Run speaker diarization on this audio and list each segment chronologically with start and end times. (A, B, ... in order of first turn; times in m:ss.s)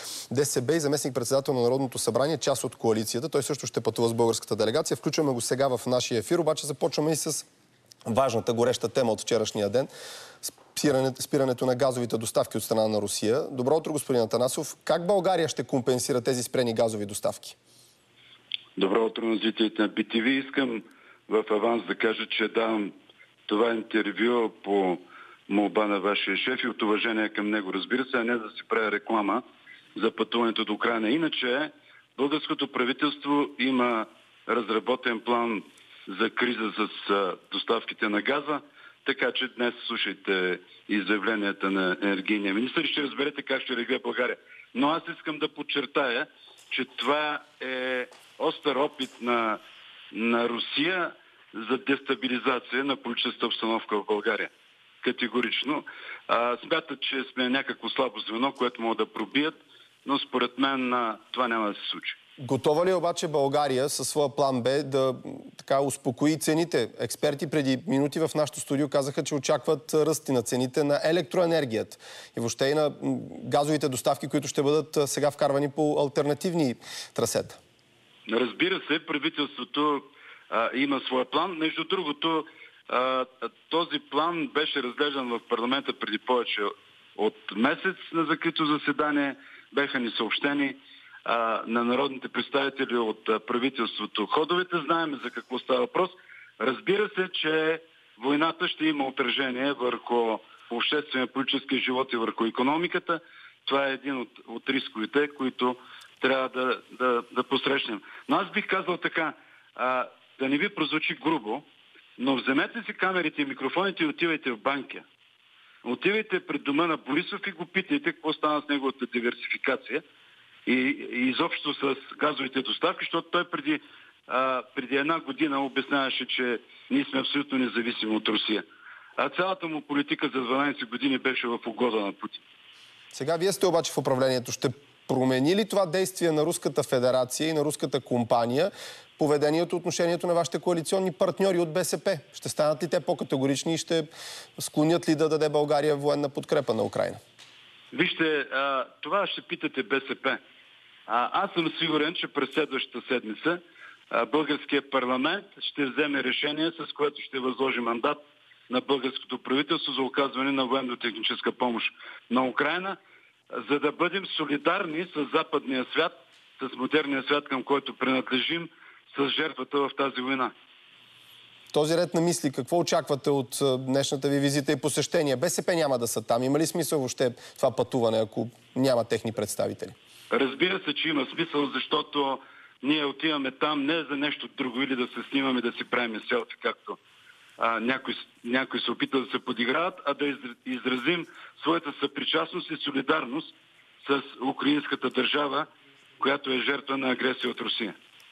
0:00.3-0:07.4 A
0:08.1-0:09.9 A
0:10.4-0:17.6 A
0:18.8-0:22.9 B
0:23.5-0:29.4 B
0:30.0-0:49.6 B
0:50.1-0:54.5 B
0:55.0-1:02.2 B
1:02.4-1:17.6 A
1:18.3-1:51.6 B
1:52.2-1:55.0 B
1:55.8-2:00.0 B
2:00.7-2:08.6 B
2:09.2-2:12.4 B
2:13.1-2:27.2 A
2:27.9-2:30.4 B
2:31.1-2:43.0 B
2:43.5-2:50.5 B
2:51.7-2:59.9 A
3:00.3-3:07.0 B
3:07.6-3:15.7 B
3:16.2-3:18.0 B